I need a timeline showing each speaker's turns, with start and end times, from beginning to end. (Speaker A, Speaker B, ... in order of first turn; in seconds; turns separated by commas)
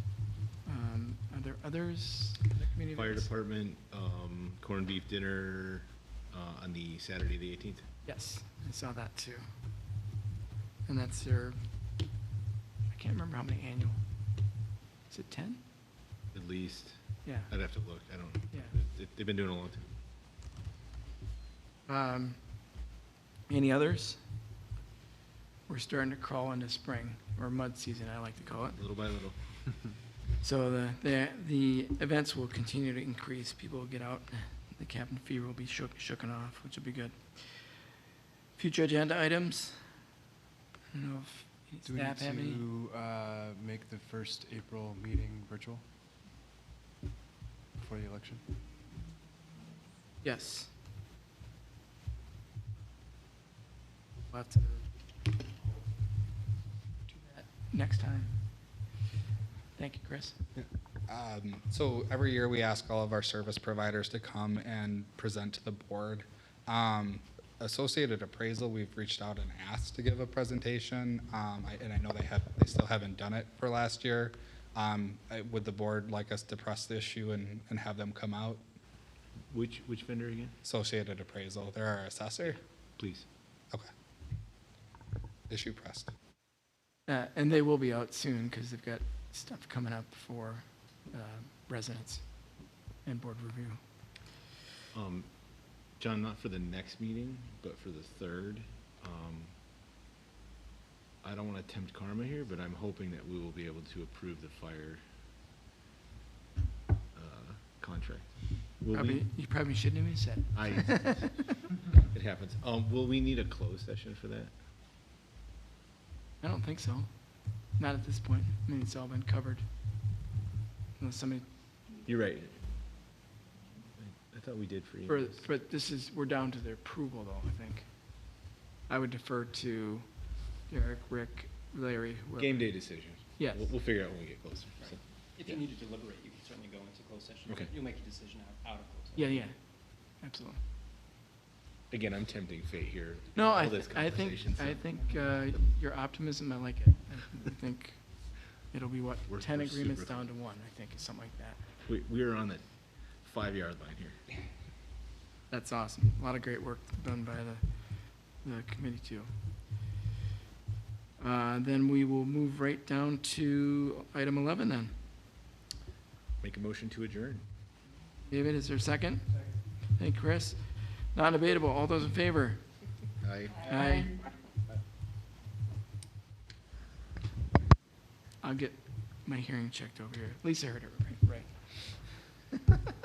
Speaker A: 0.6-3.3, Speaker B: 3.0-7.8, Speaker A: 8.0-9.4, Speaker A: 10.8-11.6, Speaker A: 12.9-14.0, Speaker A: 15.1-15.6, Speaker B: 16.3-17.0, Speaker A: 17.2-17.5, Speaker B: 17.5-19.9, Speaker A: 21.9-22.4, Speaker A: 23.5-24.2, Speaker A: 25.7-28.8, Speaker B: 28.8-29.4, Speaker A: 30.4-37.7, Speaker A: 38.5-39.9, Speaker A: 40.9-42.6, Speaker C: 41.8-45.8, Speaker C: 47.8-48.4, Speaker A: 50.2-50.7, Speaker A: 54.3-54.9, Speaker A: 57.1-58.4, Speaker A: 59.8-60.4, Speaker D: 61.1-78.6, Speaker B: 79.5-80.5, Speaker D: 80.6-82.6, Speaker B: 82.5-83.3, Speaker D: 85.5-86.1, Speaker A: 87.1-92.2, Speaker A: 93.0-93.8, Speaker B: 94.9-95.3, Speaker B: 96.0-99.5, Speaker B: 101.2-105.0, Speaker B: 107.1-109.3, Speaker A: 108.9-111.5, Speaker B: 110.5-114.5, Speaker A: 116.4-117.1, Speaker A: 117.8-119.6, Speaker A: 121.0-121.5, Speaker B: 122.0-122.6, Speaker B: 124.0-125.5, Speaker A: 125.1-127.9, Speaker A: 128.9-130.1, Speaker A: 130.7-132.7, Speaker B: 132.4-135.0, Speaker A: 133.4-133.7, Speaker E: 134.8-139.4, Speaker A: 139.2-139.6, Speaker A: 140.2-140.6, Speaker B: 141.9-144.8, Speaker A: 143.3-151.6, Speaker B: 149.3-150.3, Speaker B: 151.8-152.6, Speaker B: 153.2-154.2, Speaker A: 155.5-157.7, Speaker A: 158.3-159.3, Speaker A: 161.2-164.9, Speaker B: 166.4-167.4, Speaker A: 168.3-169.2, Speaker A: 169.9-172.6, Speaker B: 173.2-173.7, Speaker A: 173.7-174.1, Speaker A: 178.4-181.5